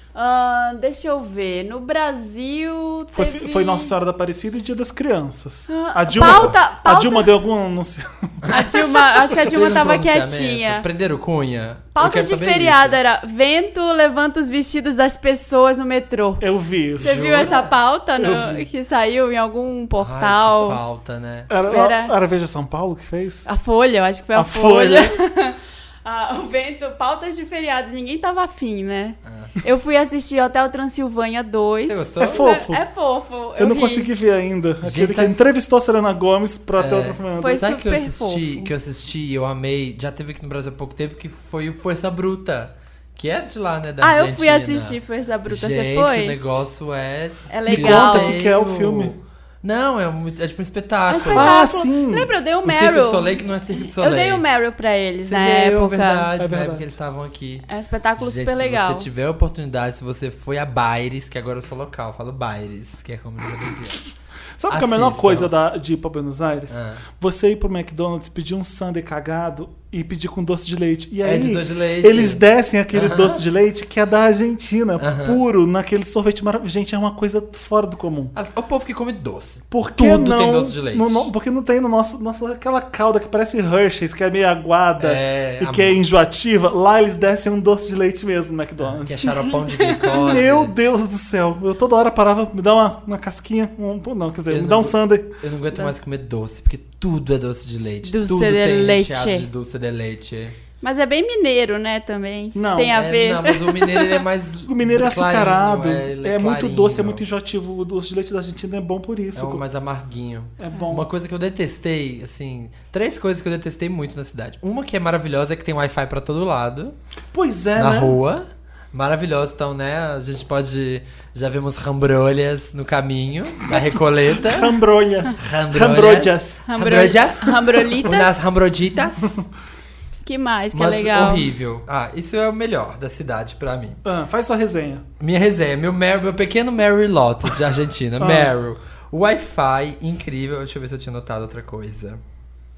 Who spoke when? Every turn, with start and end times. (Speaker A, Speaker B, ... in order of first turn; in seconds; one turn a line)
Speaker A: 0.1-3.9
Speaker B: 3.1-8.5
Speaker A: 5.7-7.3
Speaker C: 6.2-6.5
Speaker C: 8.4-13.0
Speaker A: 8.5-10.8
Speaker A: 11.9-16.4
Speaker B: 16.4-17.2
Speaker A: 17.0-20.8
Speaker C: 17.0-17.7
Speaker B: 18.2-18.6
Speaker C: 20.0-21.5
Speaker B: 21.5-23.4
Speaker A: 21.6-22.1
Speaker A: 23.4-34.1
Speaker B: 24.3-25.1
Speaker C: 29.2-29.6
Speaker C: 31.9-32.4
Speaker B: 32.2-32.8
Speaker B: 33.6-37.7
Speaker C: 34.8-35.4
Speaker C: 36.8-51.6
Speaker A: 37.4-38.7
Speaker A: 44.0-46.4
Speaker A: 47.5-48.3
Speaker B: 47.7-49.1
Speaker A: 51.1-53.4
Speaker B: 51.3-52.3
Speaker C: 52.6-54.4
Speaker A: 53.9-56.3
Speaker C: 55.2-57.6
Speaker B: 56.4-56.9
Speaker A: 57.7-59.1
Speaker C: 58.2-64.1
Speaker B: 64.6-78.3
Speaker C: 64.7-65.5
Speaker C: 66.7-67.0
Speaker C: 71.2-73.4
Speaker C: 75.0-75.4
Speaker C: 78.3-81.3
Speaker B: 79.7-89.2
Speaker C: 85.0-86.0
Speaker C: 88.8-90.7
Speaker A: 89.5-90.1
Speaker B: 90.2-95.3
Speaker C: 94.5-100.5
Speaker A: 98.0-99.5
Speaker A: 100.8-104.2
Speaker B: 102.5-103.0
Speaker C: 102.9-107.2
Speaker B: 104.6-109.6
Speaker C: 109.3-116.9
Speaker B: 110.6-111.1
Speaker B: 117.3-118.2
Speaker C: 117.8-124.8
Speaker B: 123.7-126.6
Speaker C: 125.3-129.4
Speaker A: 126.7-128.5
Speaker A: 130.2-131.5
Speaker C: 130.7-134.0
Speaker B: 134.0-135.0
Speaker C: 135.2-142.2
Speaker B: 138.2-138.5